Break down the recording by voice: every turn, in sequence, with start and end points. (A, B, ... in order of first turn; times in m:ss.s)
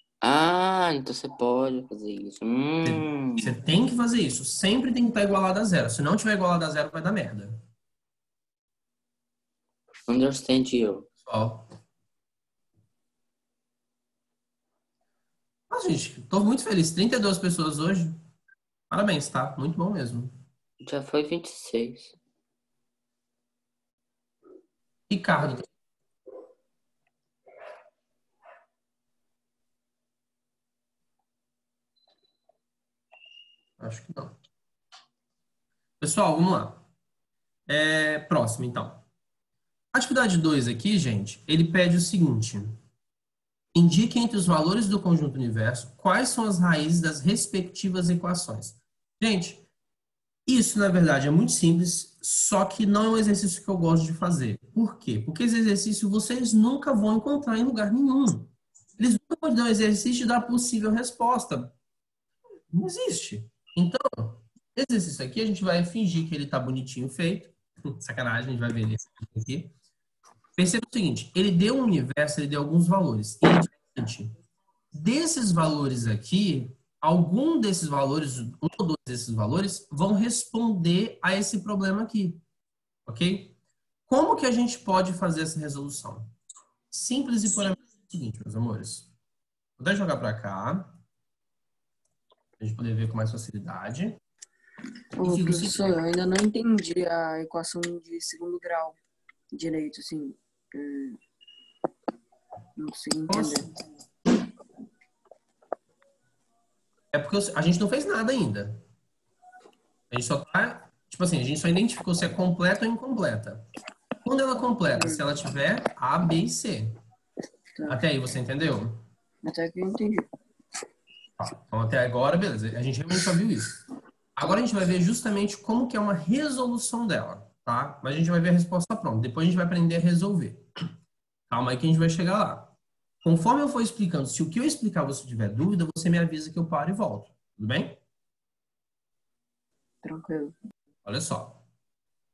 0:00.2-0:03.5 A
0:02.8-0:07.6 B
0:10.1-0:11.1 A
0:11.2-0:11.7 B
0:15.7-0:18.2 B
0:18.9-0:20.3 B
0:20.8-0:22.2 A
0:25.1-0:25.7 B
0:33.8-0:34.4 B
0:36.0-0:36.8 B
0:37.7-0:39.0 B
0:39.9-0:42.8 B
0:43.7-0:49.6 B
0:50.5-1:01.8 B
1:02.7-1:09.7 B
1:10.6-1:14.4 B
1:14.9-1:22.4 B
1:23.1-1:26.3 B
1:26.9-1:29.1 B
1:29.8-1:31.0 B
1:32.6-1:34.2 B
1:35.2-1:39.0 C
1:35.2-1:36.0 B
1:39.5-1:41.2 C
1:42.8-1:43.7 C
1:43.3-1:43.7 B
1:47.1-1:48.8 B
1:50.1-1:53.7 B
1:54.2-1:57.0 B
1:54.9-1:55.2 C
1:57.8-1:58.0 C
1:57.9-1:59.1 B
1:59.4-2:00.3 C
2:01.4-2:03.8 B
2:04.4-2:10.6 B
2:11.5-2:18.0 B
2:20.0-2:20.6 C
2:21.1-2:21.6 B